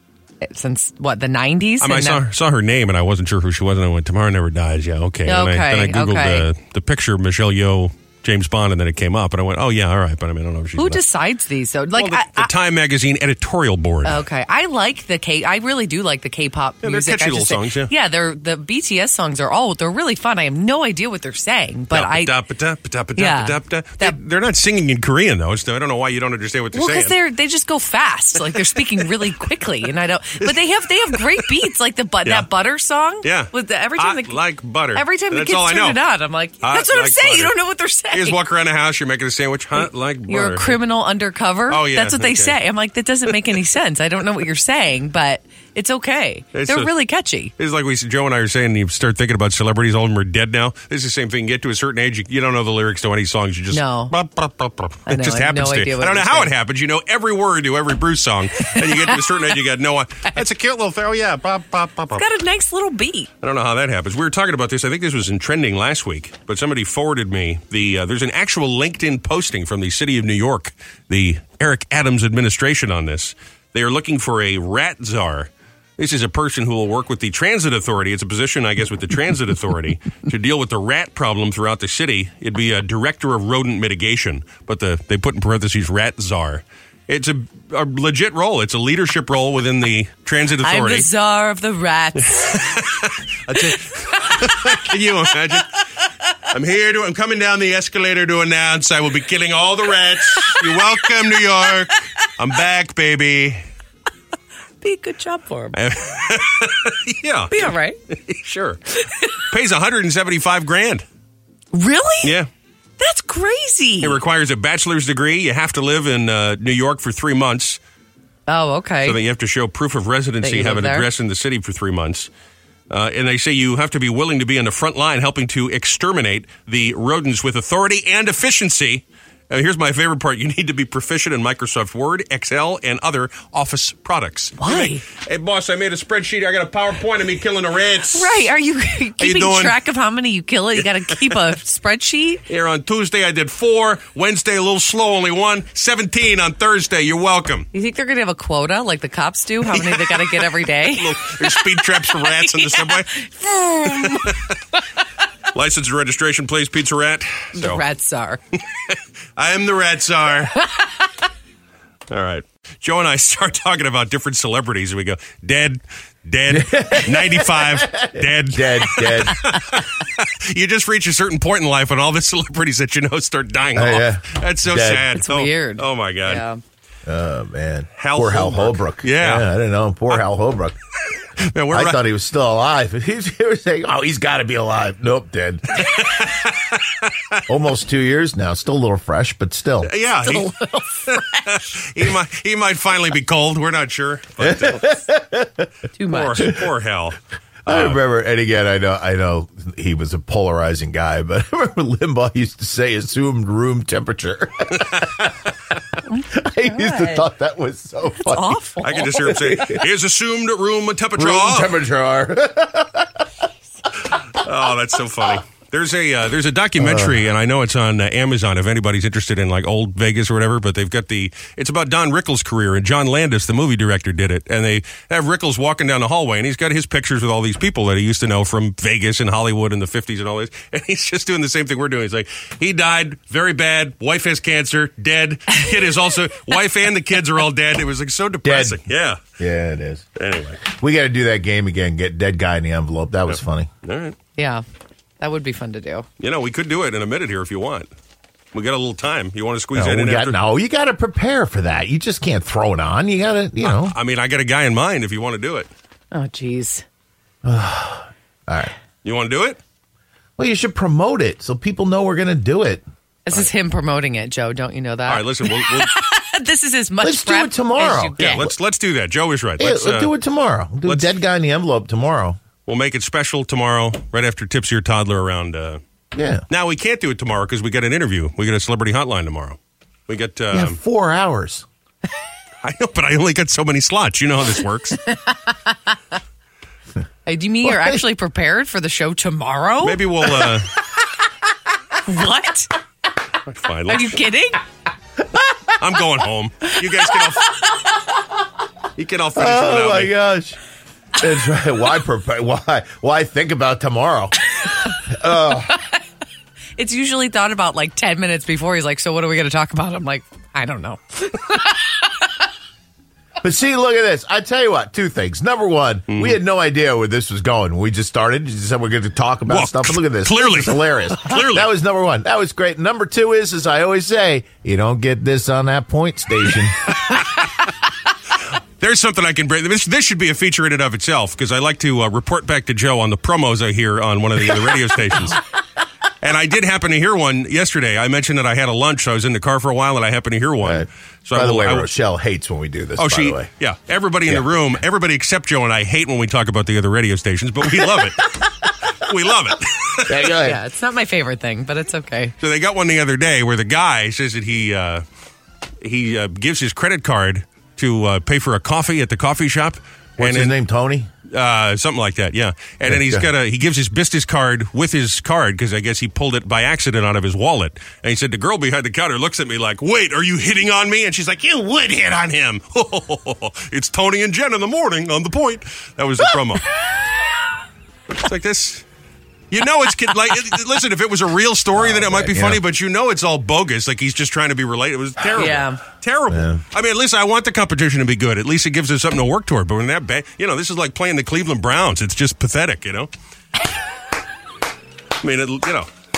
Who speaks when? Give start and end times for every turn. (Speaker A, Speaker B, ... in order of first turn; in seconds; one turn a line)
Speaker A: 0.4-2.2
Speaker B: 1.8-11.0
Speaker A: 5.3-6.5
Speaker A: 10.8-12.5
Speaker B: 11.9-14.2
Speaker A: 14.1-22.4
Speaker B: 16.8-17.9
Speaker B: 21.9-27.1
Speaker A: 23.2-24.2
Speaker A: 26.7-34.4
Speaker B: 31.1-31.5
Speaker B: 33.2-36.0
Speaker A: 34.9-38.4
Speaker B: 36.6-37.5
Speaker B: 38.1-40.8
Speaker A: 39.8-47.5
Speaker B: 41.7-42.5
Speaker B: 46.5-46.9
Speaker B: 47.6-62.2
Speaker A: 53.7-54.1
Speaker A: 55.1-56.5
Speaker A: 58.8-59.4
Speaker A: 62.2-63.3
Speaker B: 63.4-91.1
Speaker A: 90.6-92.7
Speaker B: 92.4-95.7
Speaker B: 96.5-103.6
Speaker A: 100.4-100.7
Speaker A: 104.8-105.8
Speaker B: 105.7-108.8
Speaker A: 107.5-108.0
Speaker B: 109.4-111.0
Speaker A: 111.7-112.3
Speaker B: 112.2-112.5
Speaker A: 113.0-114.2
Speaker B: 114.0-117.8
Speaker A: 118.5-119.2
Speaker B: 119.0-122.3
Speaker A: 120.4-121.1
Speaker B: 122.9-138.3
Speaker A: 134.6-135.0
Speaker A: 138.1-142.4
Speaker B: 139.2-139.7
Speaker B: 142.5-147.7
Speaker A: 147.7-154.3
Speaker B: 149.8-150.0
Speaker B: 150.9-153.1
Speaker B: 153.9-154.6
Speaker B: 155.5-157.8
Speaker A: 157.6-158.4
Speaker B: 158.9-160.6
Speaker A: 160.6-160.9
Speaker B: 162.1-176.4
Speaker C: 166.5-169.5
Speaker C: 173.8-175.1
Speaker A: 175.2-176.6
Speaker C: 177.1-180.8
Speaker B: 178.0-179.5
Speaker B: 181.5-182.0
Speaker C: 181.7-185.8
Speaker B: 185.8-187.4
Speaker C: 187.5-189.9
Speaker B: 189.8-190.5
Speaker A: 190.3-191.4
Speaker B: 191.1-194.9
Speaker C: 194.4-195.7
Speaker A: 196.0-196.5
Speaker B: 196.1-197.2
Speaker B: 197.7-198.0
Speaker C: 197.7-205.1
Speaker B: 204.8-205.3
Speaker A: 206.1-207.3
Speaker C: 206.3-208.6
Speaker A: 208.2-209.1
Speaker B: 208.8-211.7
Speaker C: 209.2-209.8
Speaker C: 211.2-213.2
Speaker B: 214.4-239.2
Speaker C: 216.8-217.2
Speaker C: 238.4-238.8
Speaker C: 239.4-240.1
Speaker B: 240.2-240.6
Speaker C: 240.6-243.7
Speaker B: 243.3-244.2
Speaker A: 244.4-244.6
Speaker A: 245.2-246.1
Speaker B: 246.2-247.9
Speaker B: 248.5-250.4
Speaker C: 249.7-253.9
Speaker B: 253.6-255.7
Speaker A: 256.1-256.9
Speaker C: 257.4-258.7
Speaker B: 259.0-259.6
Speaker C: 260.4-262.8
Speaker A: 263.3-268.5
Speaker B: 265.1-265.9
Speaker C: 267.0-268.5
Speaker B: 268.2-270.1
Speaker C: 269.6-272.4
Speaker B: 270.8-271.1
Speaker B: 272.6-275.8
Speaker C: 276.1-276.4
Speaker B: 276.5-280.8
Speaker C: 280.5-281.7
Speaker B: 282.6-285.0
Speaker A: 285.1-285.6
Speaker A: 287.3-290.6
Speaker B: 289.8-290.7
Speaker A: 292.1-292.7
Speaker B: 293.5-294.2
Speaker A: 293.9-294.6
Speaker B: 295.8-297.6
Speaker B: 299.0-300.1
Speaker C: 299.4-300.6
Speaker C: 301.2-304.4
Speaker C: 305.1-305.7
Speaker A: 306.8-312.2
Speaker C: 313.4-326.9
Speaker B: 316.1-316.4
Speaker B: 319.5-321.7
Speaker B: 328.8-335.4
Speaker B: 336.2-341.9
Speaker C: 340.6-343.5
Speaker B: 343.0-348.2
Speaker B: 349.0-350.3
Speaker C: 350.1-350.6
Speaker A: 350.4-352.4
Speaker B: 352.4-355.0
Speaker B: 355.8-360.5
Speaker C: 360.2-361.1
Speaker B: 361.3-376.6
Speaker C: 362.9-363.2
Speaker B: 378.2-378.8
Speaker B: 379.5-393.1
Speaker C: 381.8-382.6
Speaker A: 385.4-385.8
Speaker C: 386.3-386.6
Speaker B: 395.2-395.9